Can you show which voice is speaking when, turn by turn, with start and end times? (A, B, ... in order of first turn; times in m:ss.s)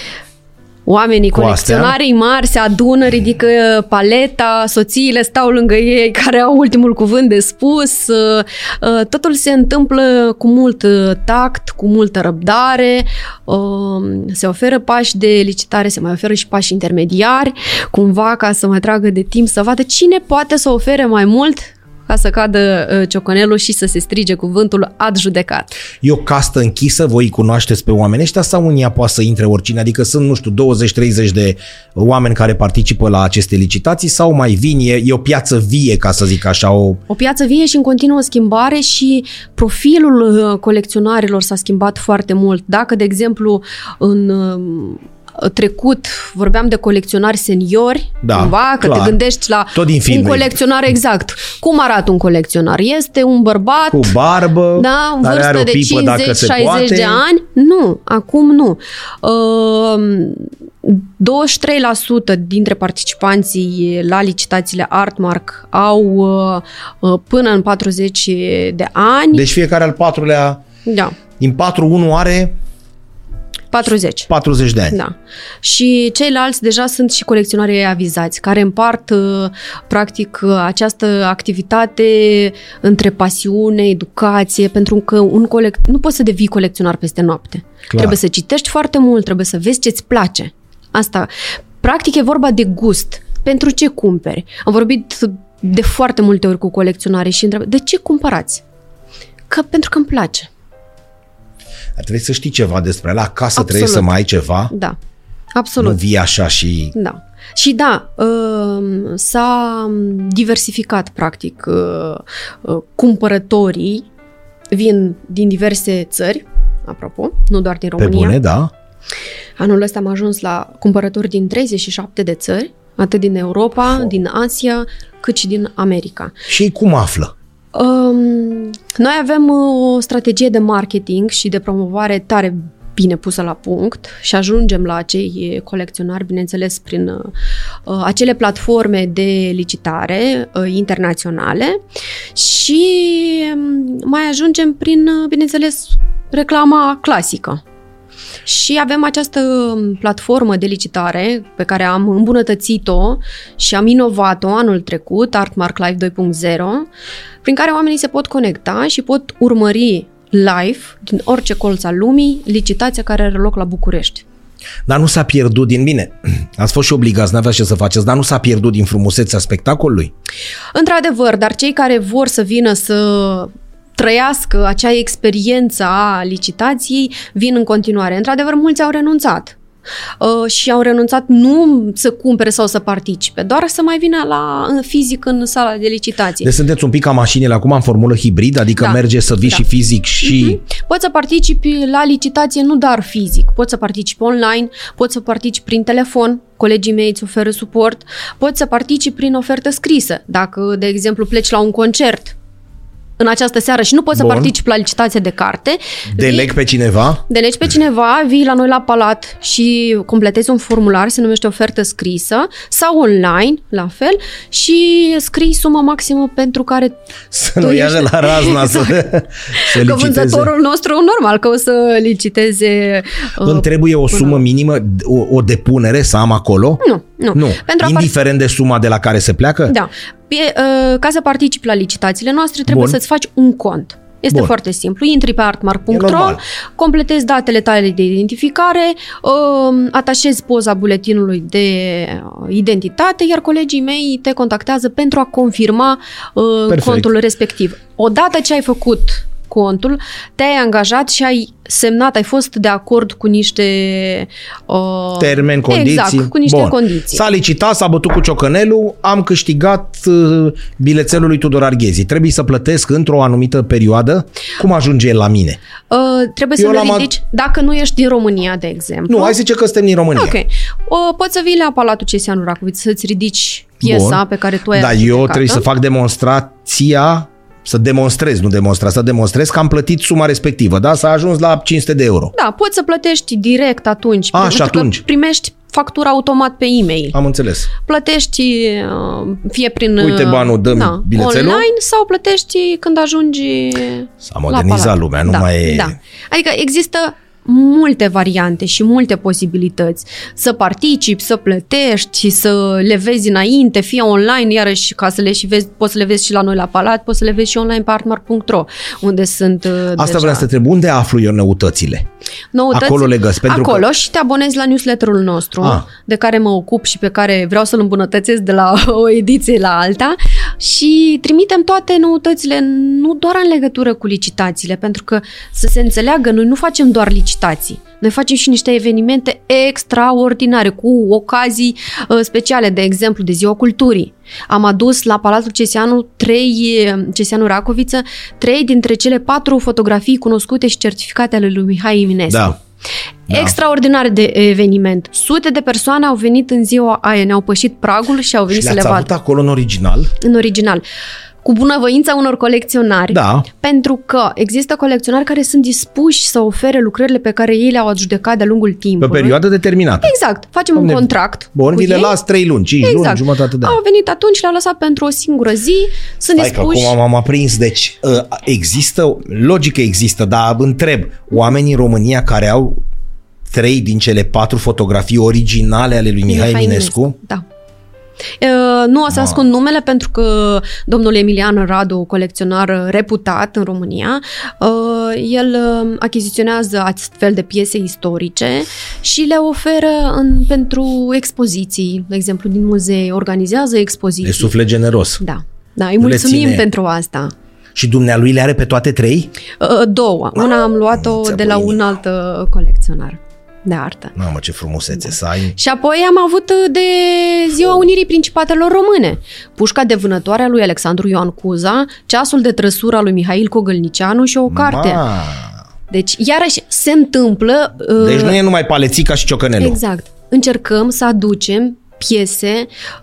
0:00.9-0:25.8 A
0:01.3-0:02.0 B
0:26.0-0:37.0 B
0:37.1-0:54.2 A
0:48.2-0:49.2 B
0:49.7-0:50.6 B
0:53.9-0:57.2 B
0:54.8-1:09.4 A
1:09.3-1:10.6 B
1:10.8-1:11.2 A
1:11.4-1:12.6 B
1:13.7-1:14.3 A
1:14.3-1:15.0 B
1:14.9-1:38.6 A
1:27.9-1:28.2 B
1:39.5-1:40.5 A
1:42.0-1:44.7 B
1:43.6-1:44.1 A
1:44.7-1:45.0 A
1:45.5-1:46.0 A
1:45.8-1:46.9 B
1:47.0-1:54.1 A
1:54.7-1:58.4 A
1:58.0-1:58.7 B
1:59.6-2:06.4 A
2:06.5-2:07.3 B
2:07.7-2:17.3 A
2:17.9-2:21.8 A
2:22.3-2:27.6 A
2:28.4-2:36.9 A
2:37.4-2:44.2 A
2:44.9-2:50.1 B
2:50.7-2:59.6 A
3:00.2-3:06.5 A
3:06.4-3:10.6 B
3:08.8-3:09.6 A
3:10.2-3:22.4 A
3:23.2-3:26.5 A
3:24.2-3:24.5 B
3:26.1-3:27.2 B
3:27.3-3:37.0 A
3:37.3-3:40.5 B
3:37.6-3:39.0 A
3:39.6-3:44.4 A
3:43.4-3:49.8 B
3:46.8-3:48.1 A
3:49.7-4:17.2 A
3:52.7-3:53.0 B
3:55.9-3:56.4 B
4:06.7-4:07.1 B
4:15.2-4:25.6 B
4:25.9-4:29.4 A
4:26.6-4:27.1 B
4:29.1-4:30.4 B
4:30.1-4:35.6 A
4:33.8-4:34.2 B
4:34.7-4:42.3 B
4:42.3-4:47.2 A
4:44.3-4:45.0 B
4:47.1-4:47.7 B
4:47.8-5:10.5 A
4:50.0-4:51.7 B
4:54.2-4:56.0 B
5:10.0-5:12.1 B
5:12.5-5:42.6 A
5:12.7-5:13.9 B
5:15.6-5:15.9 B
5:42.3-5:42.6 B
5:43.3-5:43.6 B
5:43.3-5:49.1 A
5:48.5-5:50.1 B
5:50.2-5:50.8 A
5:51.4-5:59.4 A
5:53.1-5:53.5 B
5:59.0-6:00.1 B
6:00.0-6:02.1 A
6:00.8-6:03.8 B
6:02.8-6:07.0 A
6:06.4-6:12.8 B
6:13.5-6:17.2 B
6:16.3-6:17.4 A
6:18.4-6:34.5 A
6:19.1-6:19.4 B
6:34.2-6:35.2 B
6:35.2-6:37.3 A
6:36.0-6:36.7 B
6:37.8-6:39.3 B
6:39.6-6:44.1 A
6:40.4-6:41.8 B
6:44.2-6:45.6 B
6:45.1-6:55.0 A
6:54.5-6:55.6 B
6:55.9-6:58.4 A
6:58.0-6:59.8 B
6:59.6-7:02.7 A